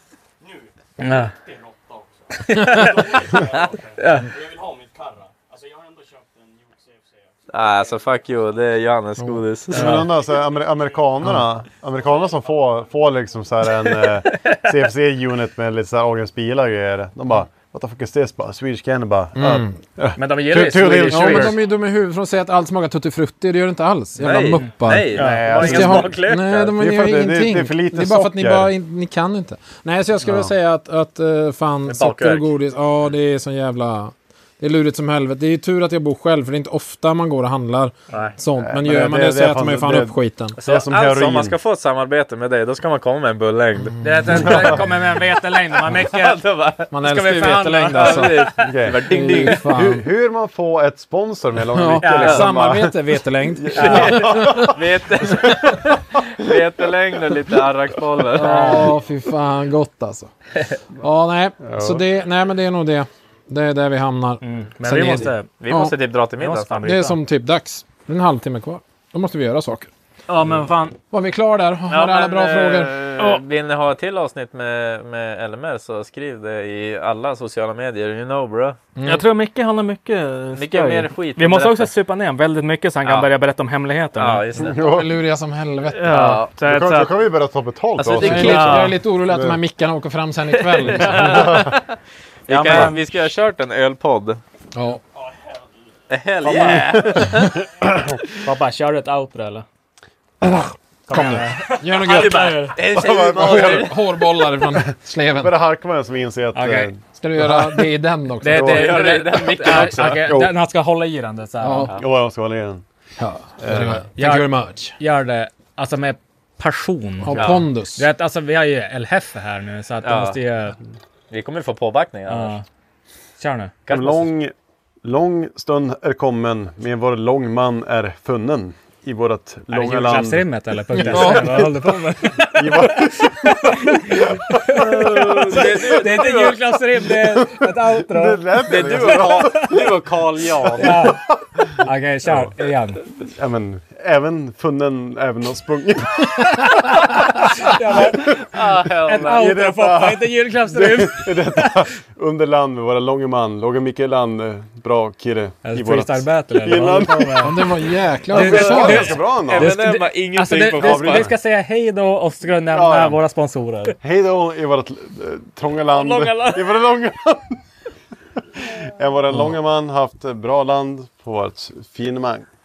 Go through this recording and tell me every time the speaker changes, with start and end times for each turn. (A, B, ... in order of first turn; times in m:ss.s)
0:00.4-0:08.9 A
0:01.0-0:01.3 B
0:02.5-0:02.9 B
0:04.0-0:04.3 B
0:07.5-0:10.0 C
0:09.2-0:09.4 D
0:09.7-0:21.6 E
0:09.7-0:10.1 B
0:10.0-0:13.6 A
0:19.3-0:19.8 D
0:20.2-0:21.6 B
0:20.8-0:40.6 D
0:21.6-0:21.9 A
0:24.2-0:26.7 C
0:25.1-0:25.6 B
0:25.2-0:26.2 E
0:26.7-0:28.7 E
0:31.9-0:32.5 C
0:38.6-0:41.6 E
0:40.6-0:44.7 C
0:44.0-0:46.4 B
0:44.0-0:44.4 D
0:45.9-0:46.9 C
0:46.9-0:50.0 D
0:47.0-0:48.7 B
0:47.9-0:49.6 C
0:48.6-0:55.9 E
0:51.7-0:54.7 D
0:52.0-0:52.5 B
0:53.7-0:58.8 C
0:58.3-1:00.3 D
0:58.4-0:58.9 B
1:01.0-1:06.0 D
1:01.6-1:02.0 E
1:04.4-1:05.5 B
1:05.6-1:06.9 C
1:06.4-1:07.2 B
1:06.8-1:09.9 D
1:10.3-1:11.0 B
1:11.1-1:13.1 D
1:11.9-1:18.8 C
1:19.0-1:19.2 D
1:19.0-1:24.4 B
1:20.6-1:21.9 C
1:24.2-1:25.0 C
1:24.6-1:25.0 E
1:24.7-1:26.4 D
1:25.9-1:27.1 B
1:26.1-1:26.4 C
1:26.6-1:29.6 E
1:28.0-1:28.8 C
1:28.2-1:31.6 D
1:28.2-1:28.8 B
1:30.6-1:32.0 C
1:30.9-1:31.7 B
1:31.2-1:31.7 E
1:32.5-1:33.0 B
1:32.5-1:34.4 C
1:34.7-1:35.0 D
1:35.1-1:36.0 A
1:36.1-1:37.5 C
1:36.4-1:37.4 B
1:36.5-1:37.3 E
1:38.4-1:39.6 B
1:40.4-1:45.5 D
1:41.1-1:42.8 B
1:42.0-1:44.0 C
1:42.9-1:43.9 E
1:45.4-1:47.8 E
1:46.5-1:46.9 B
1:47.2-1:49.1 D
1:48.4-1:51.9 B
1:48.5-1:50.3 C
1:49.7-1:50.5 E
1:51.6-1:51.9 D
1:52.0-1:52.8 E
1:53.2-1:55.0 D
1:53.6-1:54.1 E
1:54.2-1:57.4 B
1:57.2-1:58.0 D
1:58.0-2:00.8 B
2:00.0-2:00.4 C
2:01.3-2:02.6 C
2:02.3-2:02.6 B
2:03.4-2:03.7 B
2:03.8-2:04.3 C
2:03.9-2:04.5 E
2:05.0-2:10.4 E
2:09.7-2:19.6 B
2:11.0-2:11.4 E
2:11.0-2:11.9 D
2:12.5-2:13.5 E
2:14.1-2:16.0 E
2:14.7-2:16.6 C
2:17.1-2:22.5 E
2:18.6-2:21.1 C
2:20.8-2:21.2 B
2:21.8-2:23.0 B
2:23.3-2:37.5 E
2:26.8-2:28.3 B
2:28.5-2:29.5 C
2:29.1-2:31.8 B
2:35.6-2:37.6 B
2:37.4-2:39.2 D
2:38.3-2:41.3 C
2:38.3-2:44.0 B
2:38.4-2:39.7 E
2:40.8-2:41.3 E
2:42.7-2:43.2 E
2:44.0-2:47.6 E
2:46.0-2:46.6 B
2:48.6-2:52.4 E